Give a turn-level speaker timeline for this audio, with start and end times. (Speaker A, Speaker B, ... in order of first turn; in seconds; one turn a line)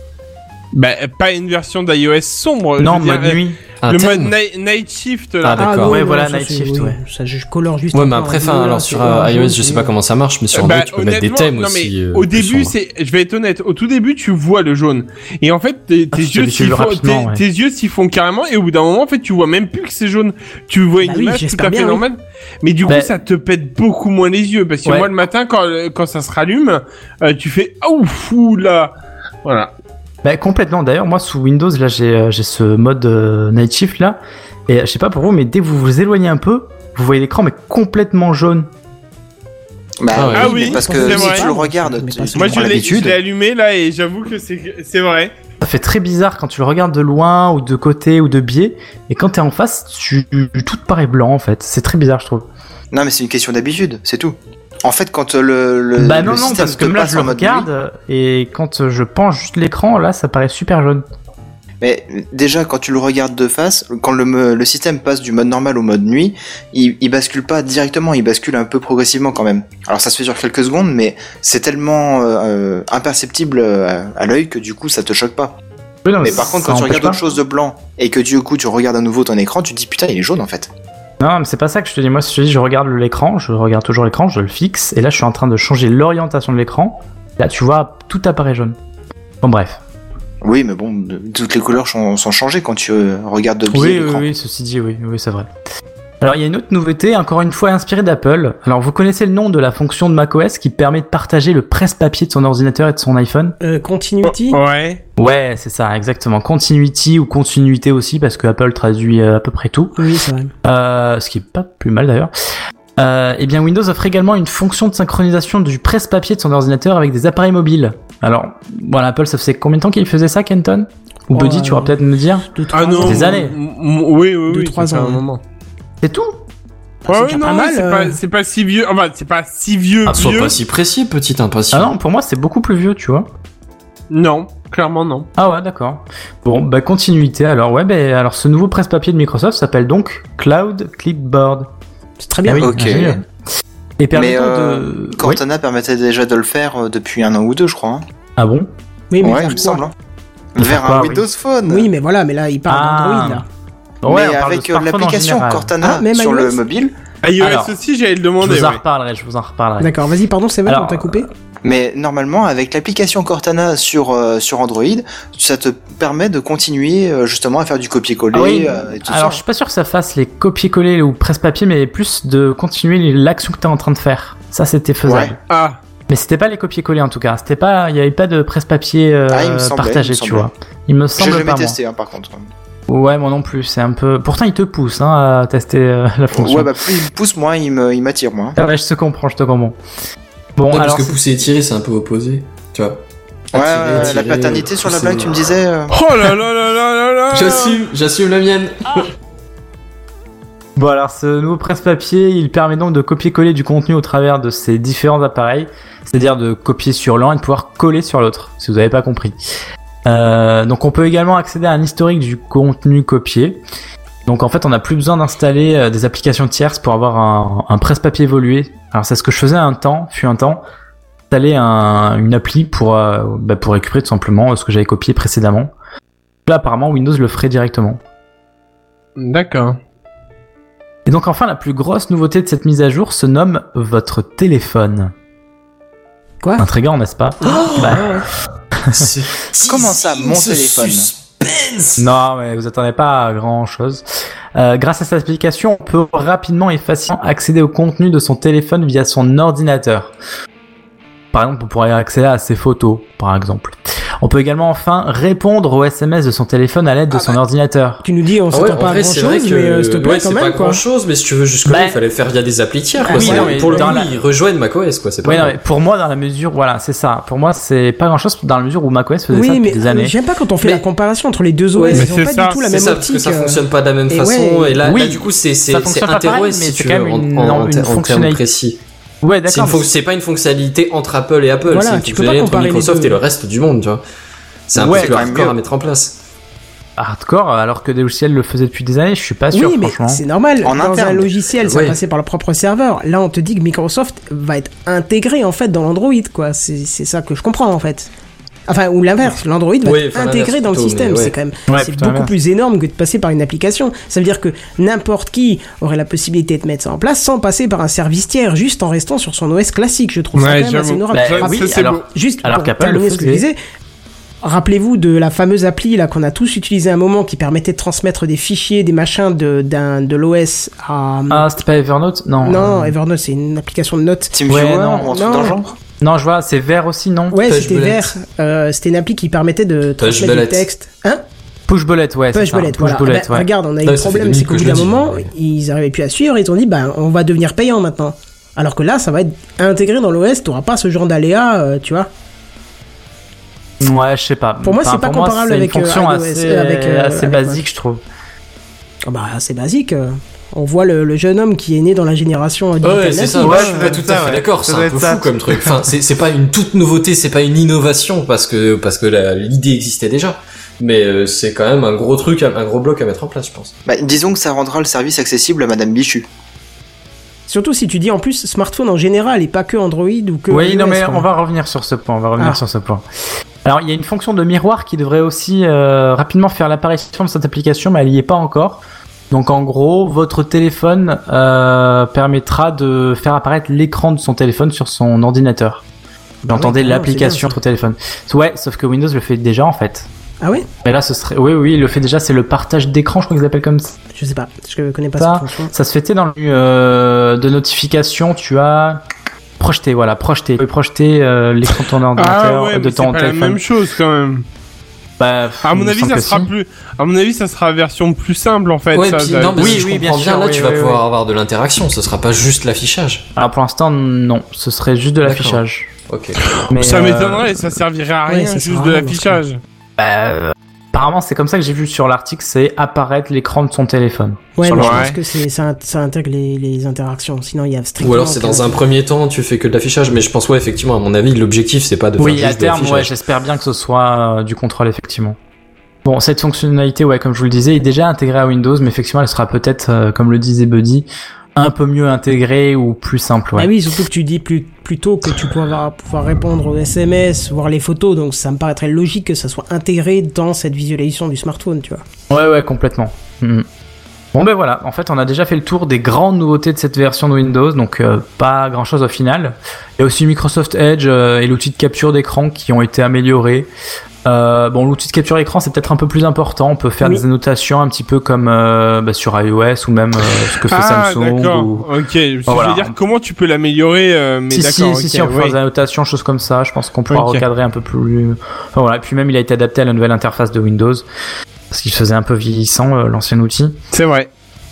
Speaker A: 0.7-5.6
Speaker B: 2.8-3.6
Speaker C: 3.8-4.3
Speaker B: 5.5-7.0
Speaker C: 5.5-6.0
Speaker D: 5.6-9.9
Speaker C: 7.9-12.7
Speaker A: 10.5-28.9
Speaker B: 16.1-17.4
Speaker D: 21.0-22.0
Speaker B: 24.8-25.1
Speaker A: 29.4-29.7
Speaker B: 30.2-38.7
Speaker E: 40.0-43.2
Speaker C: 40.1-40.6
Speaker A: 40.3-41.5
Speaker D: 40.4-42.8
Speaker A: 42.4-45.3
Speaker B: 45.6-52.5
Speaker E: 52.9-57.7
Speaker B: 56.0-61.0
Speaker E: 61.8-75.5
Speaker B: 76.0-77.2
Speaker E: 76.2-80.7
Speaker B: 81.2-88.8
Speaker B: 89.4-89.8
Speaker E: 90.4-94.3
Speaker B: 93.7-95.5
Speaker B: 96.2-103.5
Speaker D: 103.6-104.6
Speaker A: 104.5-105.0
Speaker B: 105.2-109.9
Speaker D: 110.0-110.5
Speaker B: 110.6-112.3
Speaker B: 113.0-122.5
Speaker D: 121.3-122.0
Speaker D: 122.5-123.4
Speaker A: 122.7-125.4
Speaker B: 123.0-123.5
Speaker D: 124.5-125.2
Speaker B: 126.0-126.4
Speaker D: 127.0-128.2
Speaker A: 127.1-130.6
Speaker C: 130.1-131.9
Speaker B: 131.7-133.3
Speaker A: 134.1-135.3
Speaker B: 135.4-141.7
Speaker D: 142.2-142.7
Speaker B: 142.5-143.2
Speaker E: 142.6-143.2
Speaker B: 144.0-145.4
Speaker E: 144.1-148.0
Speaker B: 148.4-148.7
Speaker D: 149.1-149.8
Speaker E: 149.2-149.9
Speaker E: 150.5-151.9
Speaker B: 150.6-151.2
Speaker D: 151.7-153.4
Speaker B: 152.7-153.4
Speaker B: 154.0-155.7
Speaker E: 154.1-156.9
Speaker D: 155.8-156.6
Speaker A: 157.2-158.8
Speaker B: 157.4-157.7
Speaker B: 158.4-159.9
Speaker D: 159.8-161.3
Speaker B: 160.7-161.2
Speaker E: 161.6-169.4
Speaker B: 168.3-175.4
Speaker E: 175.1-175.3
Speaker A: 175.5-175.8
Speaker B: 176.1-181.8
Speaker E: 179.3-180.5
Speaker E: 181.2-182.5
Speaker B: 182.9-186.7
Speaker E: 186.3-188.6
Speaker B: 188.6-189.8
Speaker B: 190.6-191.2
Speaker C: 190.7-193.0
Speaker C: 193.5-195.4
Speaker E: 193.5-195.9
Speaker A: 195.9-197.8
Speaker C: 197.3-199.1
Speaker B: 200.8-209.4
Speaker B: 210.0-213.6
Speaker B: 214.2-220.6
Speaker B: 221.3-225.7
Speaker B: 226.4-228.0
Speaker A: 229.2-229.8
Speaker B: 231.1-235.1
Speaker B: 236.6-238.1
Speaker D: 237.4-238.2
Speaker C: 237.4-238.2
Speaker B: 238.8-239.1
Speaker C: 238.9-242.0
Speaker E: 239.6-241.1
Speaker B: 242.0-244.0
Speaker B: 244.5-250.1
Speaker B: 251.3-258.0
Speaker D: 258.0-260.8
Speaker C: 258.5-265.5
Speaker B: 261.6-262.0
Speaker D: 263.0-264.0
Speaker B: 263.0-264.1
Speaker B: 265.2-270.1
Speaker D: 269.3-274.8
Speaker C: 271.7-278.8
Speaker A: 271.9-272.6
Speaker B: 274.8-278.4
Speaker B: 279.2-279.9
Speaker C: 279.5-284.0
Speaker D: 281.6-283.2
Speaker C: 284.7-286.2
Speaker B: 284.8-285.4
Speaker E: 284.8-285.6
Speaker B: 287.0-290.2
Speaker D: 289.5-298.1
Speaker E: 290.6-291.3
Speaker C: 291.6-292.0
Speaker D: 298.7-313.6
Speaker C: 299.8-301.3
Speaker B: 301.7-302.3
Speaker A: 310.4-312.0
Speaker B: 311.1-313.4
Speaker D: 314.4-321.4
Speaker B: 321.3-322.9
Speaker D: 322.4-325.6
Speaker E: 324.3-325.8
Speaker B: 324.5-325.1
Speaker B: 326.0-327.4
Speaker D: 327.3-331.2
Speaker C: 327.4-328.1
Speaker C: 330.0-330.7
Speaker B: 331.7-333.5
Speaker D: 332.3-342.1
Speaker C: 333.8-335.3
Speaker B: 343.8-348.0
Speaker D: 344.6-347.6
Speaker D: 349.1-354.0
Speaker C: 352.8-363.7
Speaker B: 353.4-355.8
Speaker E: 363.9-366.3
Speaker D: 367.5-371.3
Speaker B: 370.5-373.0
Speaker B: 373.6-385.8
Speaker B: 386.4-390.1
Speaker D: 386.5-387.6
Speaker B: 390.8-393.9
Speaker D: 394.1-395.7
Speaker B: 395.2-399.0
Speaker B: 399.6-403.6
Speaker A: 402.1-404.4
Speaker B: 405.2-406.5
Speaker A: 405.6-409.8
Speaker C: 408.9-413.2
Speaker B: 409.5-411.0
Speaker B: 413.4-415.9
Speaker C: 415.2-416.5
Speaker A: 416.5-419.6
Speaker B: 416.7-417.6
Speaker D: 418.3-419.4
Speaker B: 420.0-425.0
Speaker D: 424.6-428.8
Speaker A: 424.7-425.1
Speaker C: 428.0-433.1
Speaker B: 432.2-435.4
Speaker B: 436.0-443.7
Speaker D: 443.6-452.0
Speaker B: 452.3-453.6
Speaker B: 454.3-463.7
Speaker B: 464.2-471.9
Speaker A: 470.7-475.6
Speaker B: 472.5-472.9
Speaker B: 474.5-481.1
Speaker A: 477.1-477.4
Speaker B: 481.7-483.8
Speaker A: 483.9-484.3